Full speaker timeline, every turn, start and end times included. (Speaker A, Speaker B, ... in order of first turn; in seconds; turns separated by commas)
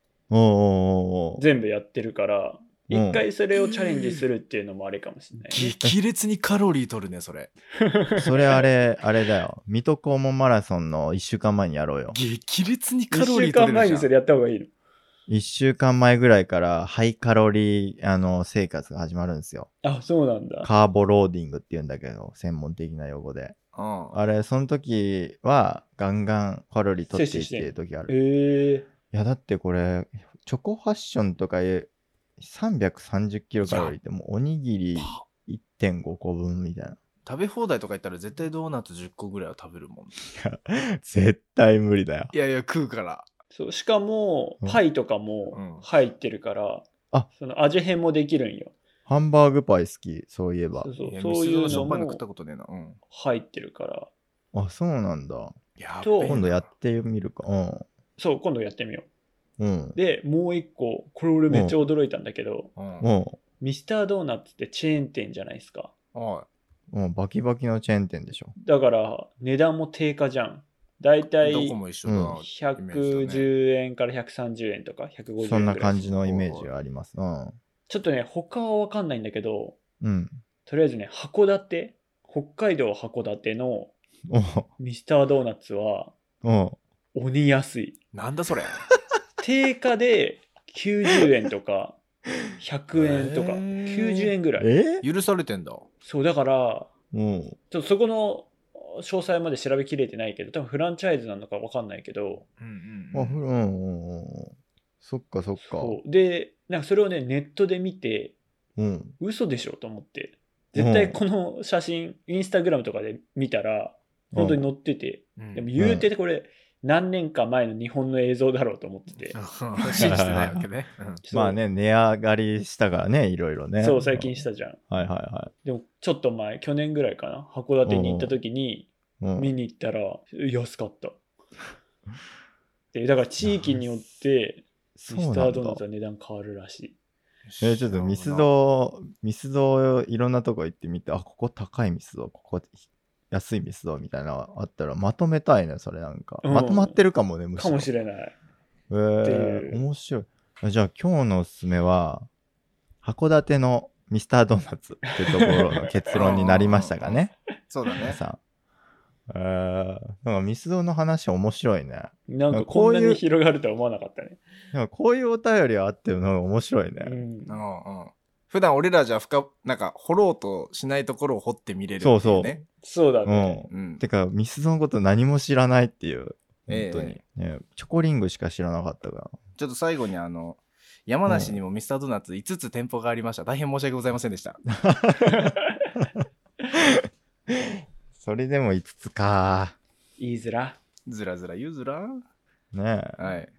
Speaker A: 0.3-1.4, Speaker B: 1.4-5.7, Speaker A: 2.9-3.3, Speaker C: 5.5-7.5, Speaker B: 7.8-8.6, Speaker A: 8.2-12.2, Speaker C: 12.1-14.1, Speaker B: 13.1-14.7, Speaker A: 15.3-19.7, Speaker B: 19.8-20.7, Speaker A: 20.6-23.6, Speaker C: 23.8-24.2, Speaker A: 24.1-28.1, Speaker B: 27.1-28.9, Speaker A: 29.1-37.0, Speaker C: 33.6-34.0, Speaker C: 35.0-35.2, Speaker C: 37.3-40.2, Speaker A: 40.3-42.3, Speaker C: 42.3-43.3, Speaker B: 43.5-48.7, Speaker C: 45.5-45.9, Speaker A: 49.1-50.9, Speaker B: 50.8-52.2, Speaker C: 51.1-53.0, Speaker B: 53.1-54.1, Speaker A: 54.5-55.6, Speaker C: 55.8-56.7, Speaker B: 56.0-56.4, Speaker A: 56.2-57.9, Speaker B: 58.2-59.1, Speaker A: 59.6-60.0, Speaker B: 60.0-62.7, Speaker A: 61.5-61.8, Speaker C: 62.8-63.1, Speaker A: 63.0-63.4, Speaker B: 63.6-65.9, Speaker C: 66.1-66.5, Speaker A: 66.9-68.5, Speaker B: 68.6-71.8, Speaker C: 71.4-73.5, Speaker A: 72.0-72.4, Speaker B: 72.4-76.1, Speaker A: 75.4-77.6, Speaker C: 76.2-76.7, Speaker B: 77.9-79.8, Speaker A: 80.0-80.4, Speaker B: 80.7-83.9, Speaker A: 84.3-84.7, Speaker B: 84.8-86.1, Speaker A: 86.4-86.8, Speaker B: 87.1-88.0, Speaker C: 88.1-88.9, Speaker B: 89.4-92.0, Speaker B: 92.6-94.7, Speaker C: 93.0-94.3, Speaker A: 94.6-95.0, Speaker C: 95.0-95.9, Speaker B: 96.0-96.9, Speaker A: 97.1-97.6, Speaker B: 97.7-102.5, Speaker C: 102.6-103.4, Speaker A: 103.1-106.0, Speaker B: 105.6-108.4, Speaker A: 108.8-109.2, Speaker B: 109.2-119.4, Speaker A: 110.8-111.2, Speaker A: 114.3-114.7, Speaker C: 115.4-115.7, Speaker A: 115.8-116.1, Speaker C: 119.3-121.2, Speaker A: 119.9-120.7, Speaker B: 121.2-121.6, Speaker A: 121.3-125.5, Speaker B: 123.8-124.8, Speaker B: 125.6-131.2, Speaker A: 127.8-128.4, Speaker A: 129.2-129.5, Speaker B: 132.9-137.0, Speaker A: 133.4-133.8, Speaker A: 135.0-135.8, Speaker C: 137.5-138.5, Speaker A: 137.6-142.8, Speaker A: 143.3-147.9, Speaker B: 146.4-147.0, Speaker B: 147.6-148.3, Speaker A: 148.9-152.3, Speaker B: 149.2-149.8, Speaker A: 153.0-157.3, Speaker B: 155.1-155.9, Speaker C: 156.1-158.2, Speaker A: 158.0-158.4, Speaker A: 159.3-163.2, Speaker B: 162.3-164.4, Speaker A: 164.7-167.2, Speaker B: 167.0-167.6, Speaker C: 167.5-172.6, Speaker A: 172.0-172.6, Speaker B: 172.8-173.7, Speaker A: 173.2-179.4, Speaker C: 173.7-174.0, Speaker C: 176.7-177.2, Speaker C: 179.6-184.6, Speaker A: 181.3-181.6, Speaker A: 184.7-186.1, Speaker B: 185.2-185.5, Speaker A: 186.8-189.8, Speaker B: 190.2-190.8, Speaker C: 191.1-192.2, Speaker A: 192.7-193.2, Speaker C: 193.2-193.5